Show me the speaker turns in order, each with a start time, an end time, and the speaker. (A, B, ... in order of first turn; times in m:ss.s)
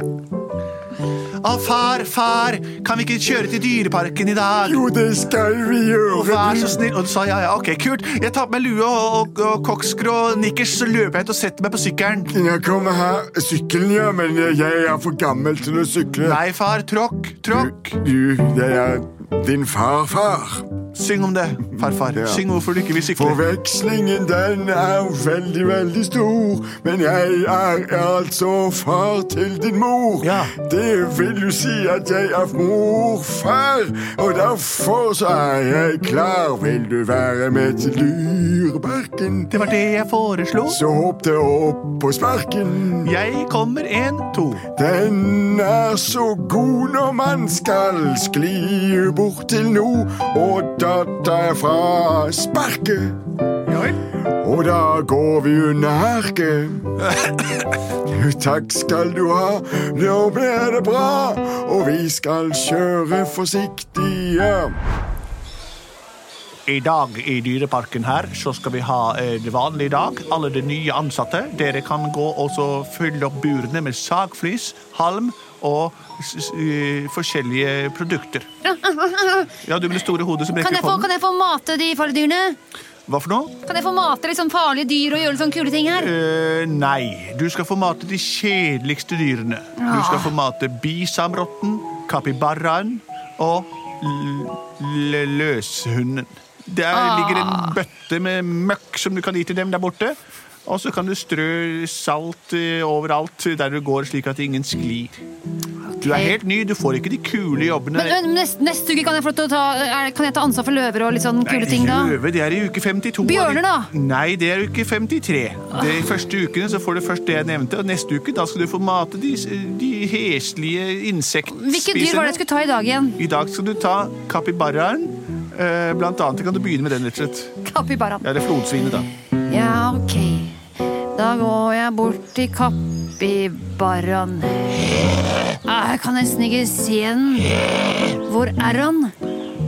0:01.4-0:04.8 A
0:04.6-0:06.8 B
0:06.1-0:12.4 A
0:12.3-0:16.4 B
0:16.2-0:18.0 A
0:17.5-0:20.6 B
0:20.9-0:23.4 A
0:21.8-0:22.4 B
0:23.1-0:39.6 B
0:30.2-0:30.5 A
0:39.5-0:40.8 A
0:40.6-0:43.1 B
0:43.0-0:44.6 A
0:44.7-0:53.2 B
0:53.6-0:54.0 A
0:54.3-0:56.9 B
0:57.9-1:04.7 B
1:06.7-1:18.5 A
1:18.6-1:19.6 C
1:19.6-1:21.1 A
1:20.6-1:22.6 C
1:23.1-1:23.6 A
1:23.6-1:26.1 C
1:26.0-1:45.2 A
1:29.8-1:30.3 C
1:36.9-1:37.8 C
1:45.8-1:46.4 C
1:46.0-1:48.2 A
1:47.9-1:52.2 C
1:51.4-2:02.4 A
1:53.2-1:53.9 C
2:01.5-2:03.2 C
2:03.2-2:07.5 A
2:07.6-2:08.2 C
2:08.2-2:09.1 A
2:09.5-2:10.6 C
2:11.1-2:19.1 C